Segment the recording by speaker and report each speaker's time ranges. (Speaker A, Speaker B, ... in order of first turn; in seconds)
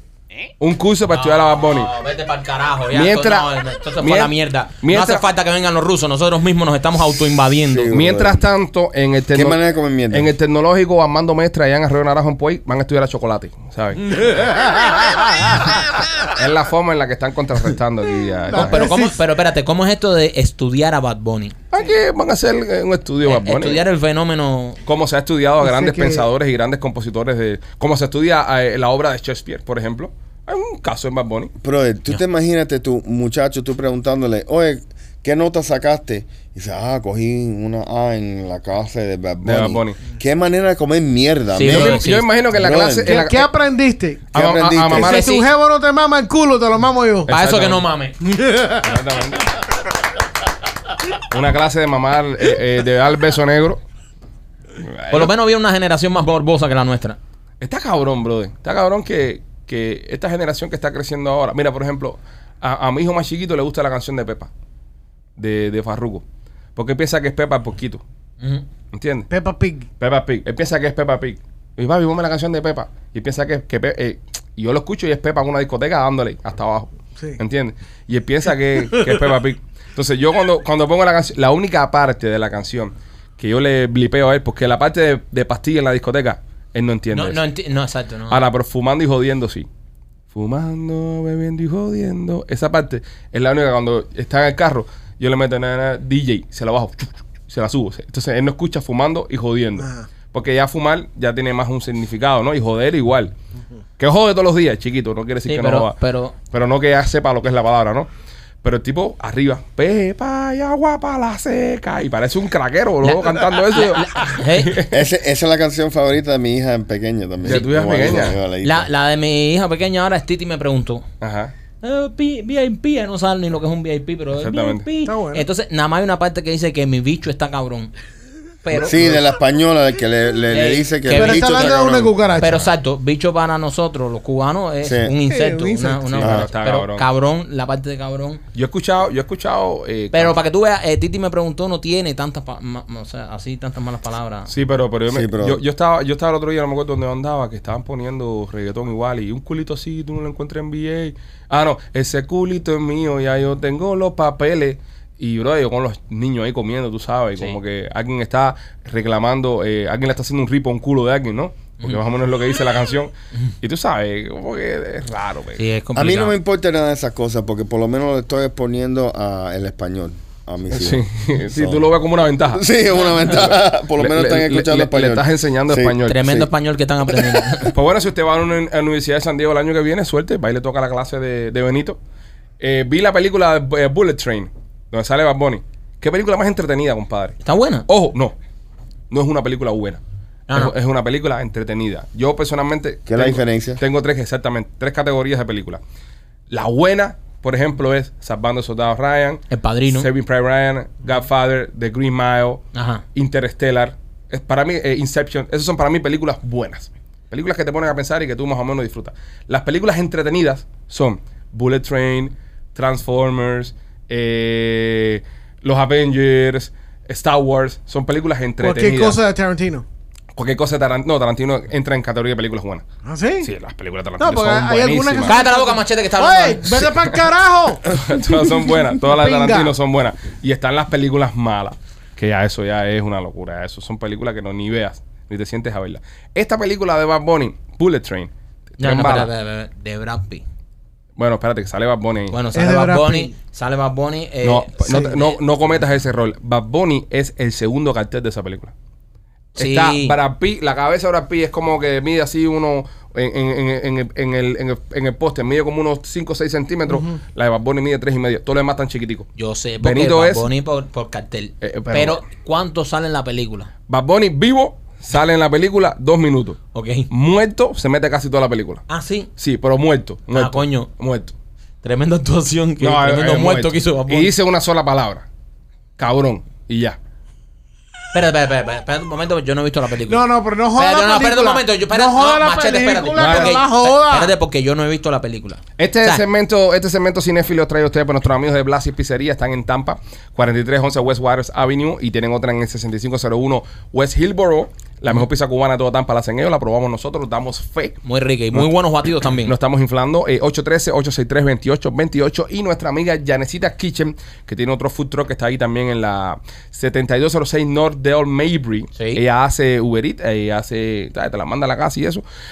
Speaker A: 0.6-1.9, 2.9-5.2, 7.9-14.4, 16.2-19.0, 21.7-23.8, 24.9-31.5, 39.4-40.0, 41.7-43.5, 44.3-45.4, 47.3-47.9, 48.8-49.5, 51.2-53.8, 54.8-55.3, 57.6-64.5, 65.4-66.2, 66.8-68.0, 68.9-69.3, 70.0-87.4, 88.3-89.7, 90.3-103.3, 104.0-106.0, 106.5-108.1, 108.6-115.0, 117.4-118.4, 121.2-121.5, 124.4-124.9, 136.1-137.1, 138.5-140.4, 144.5-165.6, 170.7-176.3, 177.7-182.0, 182.6-187.4, 187.9-188.3, 189.1-190.0, 190.5-195.8, 196.5-202.6, 203.2-219.2, 220.3-222.8, 223.4-225.4, 226.9-227.2, 227.9-239.3, 241.2-242.4, 244.4-248.7, 249.6-259.3, 259.8-260.5, 261.6-262.2, 263.9-266.6, 267.1-268.8, 269.4-271.3, 272.8-275.3, 276.0-277.0, 283.2-283.6, 285.8-298.0, 299.4-312.2
Speaker B: 1.1-8.0, 18.5-21.6, 23.2-24.8, 41.5-42.3, 45.0-45.5, 47.3-48.2, 55.1-57.2, 87.1-88.4, 105.5-106.3, 113.0-114.8, 118.6-121.1, 121.8-127.9, 128.6-129.1, 130.5-131.8, 132.4-138.4, 140.1-144.5, 165.6-166.3, 176.0-177.8, 187.4-187.9, 199.5-200.1, 202.7-203.0, 225.2-226.8, 238.8-240.4, 242.3-245.4, 249.6-250.2, 259.4-263.7, 266.7-267.1, 268.9-269.3, 270.3-270.9, 271.8-274.3, 278.1-286.2, 298.0-299.5, 308.9-309.2
Speaker C: 7.7-8.4, 9.3-10.3, 31.6-43.2, 44.3-45.1, 114.9-118.9, 128.7-132.2, 134.8-135.2, 136.2-136.5, 145.1-145.6, 165.9-171.9, 172.5-176.5, 177.1-177.6, 193.1-193.8
Speaker D: 14.6-15.1, 18.5-19.2, 25.6-26.3, 43.1-44.3, 44.9-47.3, 48.2-49.0, 69.3-69.9, 78.9-79.2, 99.8-100.1, 125.0-125.5, 131.1-132.7, 135.3-136.3, 218.6-219.8, 223.1-223.5, 224.2-228.0, 229.0-229.7, 242.5-243.3, 280.1-284.3